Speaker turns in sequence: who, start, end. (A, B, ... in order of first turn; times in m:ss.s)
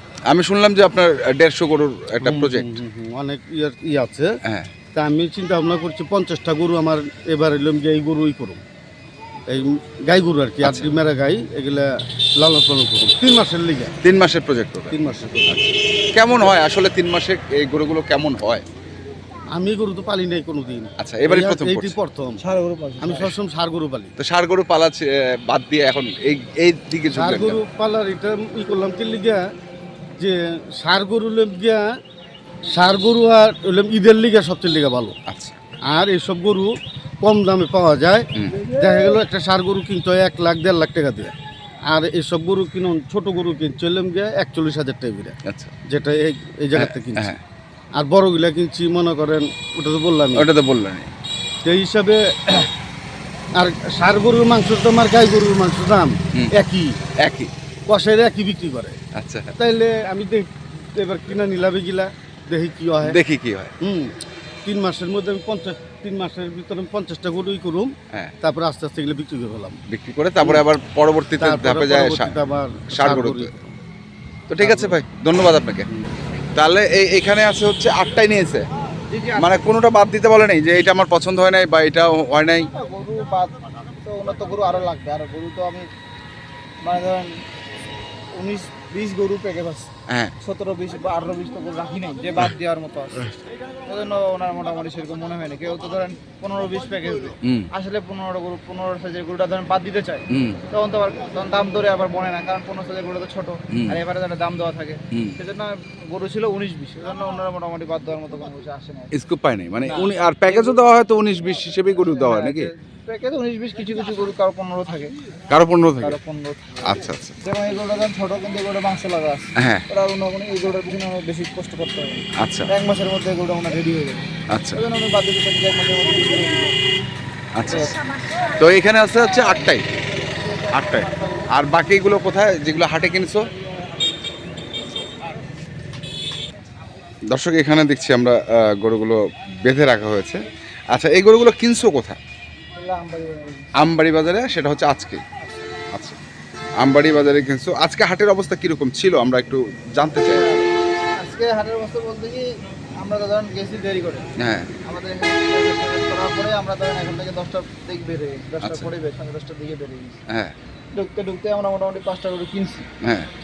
0:00.3-0:02.8 A
0:02.2-0:04.3 B
0:04.4-0:04.7 A
0:04.9-0:08.6 B
0:09.5-0:14.0 B
0:10.6-0:10.9 A
0:14.0-0:18.6 A
0:14.9-0:15.5 B
0:16.3-0:16.5 B
0:19.5-0:22.4 B
0:21.0-0:22.0 A
0:22.4-0:23.4 C
0:23.0-0:24.1 B
0:24.2-0:27.6 A
0:27.1-0:29.4 B
0:30.2-0:31.9 B
0:32.7-0:35.1 B
0:35.3-0:35.6 A
0:35.9-0:41.3 B
0:38.4-0:38.7 A
0:38.6-0:39.2 C
0:41.9-0:47.3 B
0:45.4-0:45.7 A
0:46.8-0:47.4 A
0:48.0-0:50.5 B
0:50.3-0:51.1 A
0:51.6-0:52.7 B
0:53.6-0:57.1 B
0:57.2-0:57.5 A
0:57.9-0:59.0 B
0:59.2-0:59.5 A
0:59.6-1:03.2 B
1:03.0-1:03.7 A
1:03.8-1:09.8 B
1:09.9-1:12.4 A
1:11.4-1:13.8 B
1:12.9-1:13.6 A
1:14.5-1:15.9 A
1:14.6-1:15.0 B
1:16.5-1:18.6 A
1:19.1-1:19.6 C
1:19.4-1:22.7 A
1:22.7-1:25.8 C
1:26.8-1:27.2 C
1:28.4-1:29.9 C
1:30.1-1:30.3 A
1:30.4-1:33.2 C
1:33.9-1:49.1 C
1:37.4-1:37.7 A
1:40.3-1:40.6 A
1:43.7-1:44.0 A
1:45.1-1:45.4 A
1:49.1-1:52.7 A
1:49.8-1:50.9 C
1:51.9-1:55.2 C
1:55.5-1:56.2 A
1:56.0-2:06.7 C
1:56.8-1:57.4 A
1:59.6-1:59.9 A
2:02.4-2:02.7 A
2:04.5-2:04.8 A
2:07.5-2:08.0 A
2:07.6-2:08.0 C
2:08.6-2:09.8 A
2:10.3-2:11.5 C
2:10.7-2:13.5 A
2:13.5-2:14.9 C
2:17.3-2:22.2 A
2:22.8-2:23.7 C
2:23.8-2:25.2 A
2:25.9-2:26.2 A
2:26.8-2:30.5 A
2:30.1-2:32.5 C
2:33.0-2:34.3 C
2:34.4-2:34.7 A
2:34.8-2:40.2 C
2:38.6-2:38.9 A
2:40.3-2:40.5 A
2:40.9-2:42.9 C
2:43.0-2:43.3 A